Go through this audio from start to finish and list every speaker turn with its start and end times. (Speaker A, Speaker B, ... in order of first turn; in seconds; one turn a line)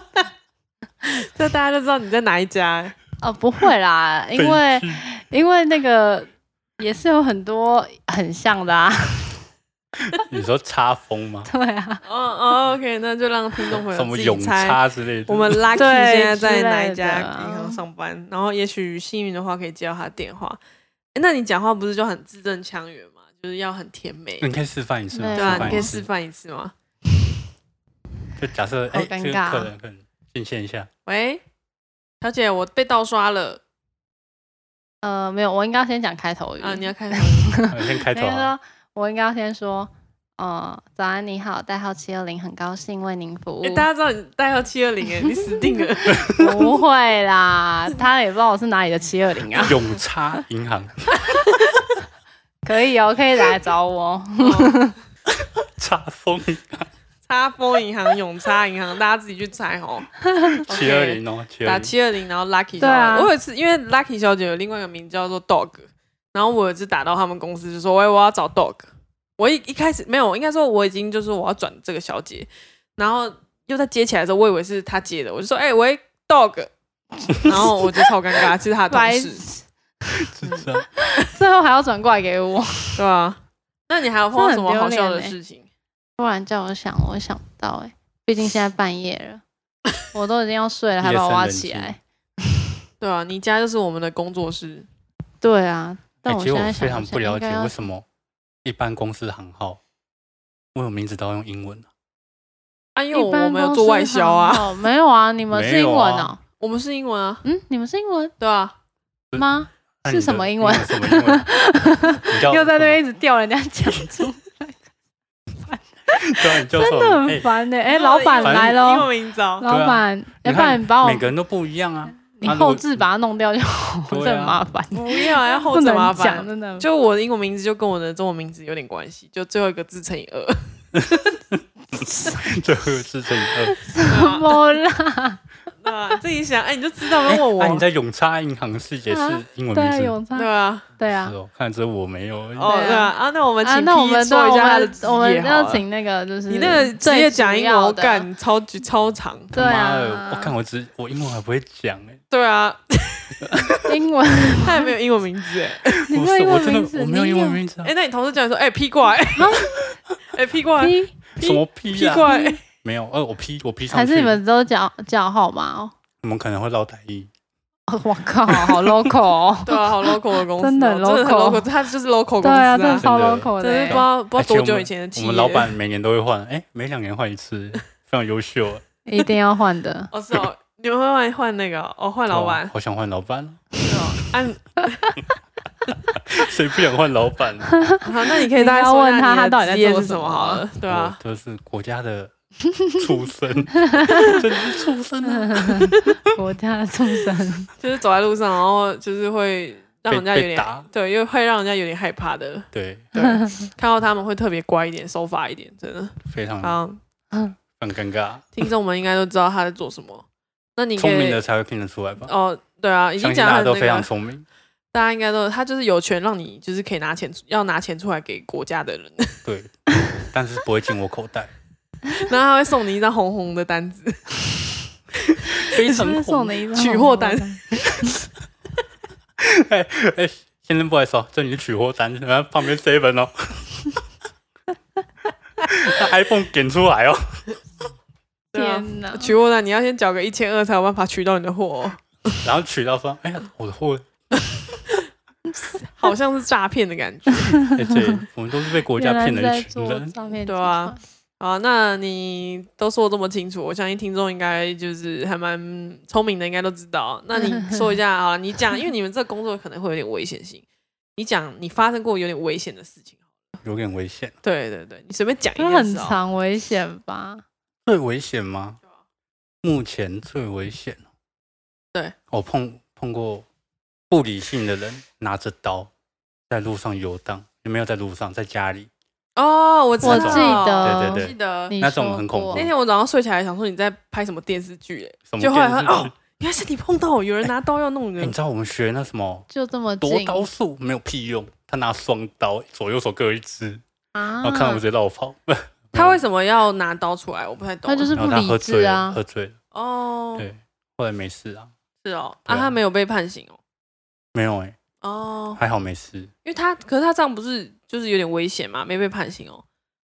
Speaker A: 1.2-3.0
Speaker B: 3.2-9.4
Speaker C: 4.3-5.0
Speaker C: 10.3-11.5
Speaker B: 11.5-12.0
Speaker A: 12.0-20.6
Speaker C: 13.7-15.6
Speaker B: 15.8-17.8
Speaker A: 21.1-24.5
Speaker C: 24.4-26.1
Speaker B: 25.1-25.9
Speaker A: 25.3-26.7
Speaker C: 28.4-30.9
Speaker B: 28.9-29.7
Speaker A: 31.1-31.4
Speaker A: 32.2-33.6
Speaker B: 35.0-43.9
Speaker A: 36.6-37.5
Speaker C: 37.7-38.5
Speaker A: 43.6-46.5
Speaker B: 46.1-49.7
Speaker A: 49.6-49.9
Speaker C: 49.6-51.1
Speaker B: 52.6-54.9
Speaker A: 54.4-54.8
Speaker C: 55.3-56.9
Speaker A: 57.3-76.7
Speaker B: 60.3-60.6
Speaker C: 60.7-61.9
Speaker B: 62.8-63.3
Speaker B: 77.3-77.8
Speaker A: 77.4-79.4
Speaker B: 78.9-80.2
Speaker C: 80.3-80.9
Speaker B: 80.9-83.0
Speaker A: 83.0-85.7
Speaker B: 84.3-85.3
Speaker B: 86.2-89.4
Speaker B: 90.1-92.0
Speaker C: 91.0-91.9
Speaker A: 93.0-94.9
Speaker B: 95.4-97.8
Speaker C: 96.2-98.0
Speaker C: 98.6-99.8
Speaker C: 100.7-101.9
Speaker A: 102.9-104.7
Speaker B: 103.1-106.4
Speaker C: 105.5-106.3
Speaker A: 106.6-107.4
Speaker B: 107.4-108.3
Speaker A: 108.4-108.7
Speaker B: 109.3-114.8
Speaker C: 110.0-111.4
Speaker C: 112.2-113.0
Speaker B: 115.6-121.3
Speaker C: 116.2-117.5
Speaker A: 117.8-119.7
Speaker C: 118.4-118.8
Speaker C: 119.7-123.0
Speaker B: 122.3-126.9
Speaker C: 124.1-124.6
Speaker A: 124.9-131.4
Speaker C: 130.9-133.8
Speaker B: 132.0-132.5
Speaker B: 133.6-135.4
Speaker A: 134.1-134.6
Speaker A: 135.8-137.8
Speaker C: 137.2-140.2
Speaker B: 139.1-141.3
Speaker A: 140.3-140.8
Speaker C: 141.1-142.8
Speaker A: 142.6-145.8
Speaker B: 142.6-143.1
Speaker B: 143.6-148.3
Speaker A: 146.5-149.5
Speaker B: 149.5-150.5
Speaker C: 149.5-152.2
Speaker A: 152.3-153.9
Speaker B: 153.8-154.9
Speaker A: 154.5-156.0
Speaker C: 156.1-157.9
Speaker B: 156.1-157.6
Speaker A: 157.8-159.7
Speaker B: 159.3-159.9
Speaker A: 160.3-162.6
Speaker B: 160.8-161.1
Speaker C: 161.4-164.4
Speaker B: 162.2-162.6
Speaker B: 163.9-165.9
Speaker C: 166.2-167.3
Speaker B: 167.9-171.7
Speaker C: 168.7-169.1
Speaker A: 169.6-173.1
Speaker B: 172.4-174.0
Speaker C: 172.9-178.8
Speaker A: 173.6-175.7
Speaker B: 179.1-180.1
Speaker A: 180.1-182.7
Speaker C: 182.3-183.7
Speaker A: 183.8-185.1
Speaker C: 186.2-187.8
Speaker B: 187.8-190.6
Speaker A: 188.0-191.2
Speaker C: 190.9-192.3
Speaker C: 192.9-196.1
Speaker B: 193.8-194.4
Speaker B: 195.2-197.7
Speaker A: 197.8-207.0
Speaker C: 200.1-200.9
Speaker C: 202.7-203.1
Speaker B: 203.2-203.7
Speaker C: 206.3-206.8
Speaker C: 207.8-208.5
Speaker A: 208.6-210.2
Speaker A: 210.8-211.4
Speaker C: 211.0-212.3
Speaker A: 212.2-214.1
Speaker C: 213.2-214.4
Speaker A: 214.9-219.4
Speaker C: 219.4-221.5
Speaker A: 222.1-224.8
Speaker B: 225.6-227.6
Speaker C: 225.6-226.6
Speaker A: 226.7-228.2
Speaker C: 229.4-234.0
Speaker C: 235.6-237.6
Speaker B: 238.5-239.3
Speaker A: 238.5-242.5
Speaker C: 242.4-244.1
Speaker A: 245.9-247.7
Speaker B: 247.5-248.2
Speaker C: 247.6-250.1
Speaker B: 248.9-251.0
Speaker A: 250.4-260.6
Speaker B: 257.3-257.8
Speaker A: 261.1-263.6
Speaker C: 263.6-264.3
Speaker A: 264.4-266.2
Speaker B: 265.6-267.4
Speaker C: 267.9-268.8
Speaker C: 269.6-271.0
Speaker C: 272.3-273.4
Speaker C: 274.1-275.9
Speaker C: 276.5-278.9
Speaker A: 279.4-281.8
Speaker C: 280.0-282.7
Speaker B: 280.0-282.7
Speaker A: 282.5-288.3
Speaker C: 285.3-286.1
Speaker C: 288.2-289.5
Speaker B: 289.5-290.5
Speaker C: 290.0-293.8
Speaker B: 294.1-294.8
Speaker C: 294.4-296.2
Speaker A: 295.9-298.2
Speaker B: 297.9-299.2
Speaker C: 298.1-299.6
Speaker A: 299.7-300.5
Speaker C: 300.4-301.7
Speaker A: 302.0-303.6
Speaker C: 302.5-302.8
Speaker C: 304.3-304.8
Speaker A: 305.0-305.6
Speaker C: 305.6-306.3
Speaker A: 306.4-309.6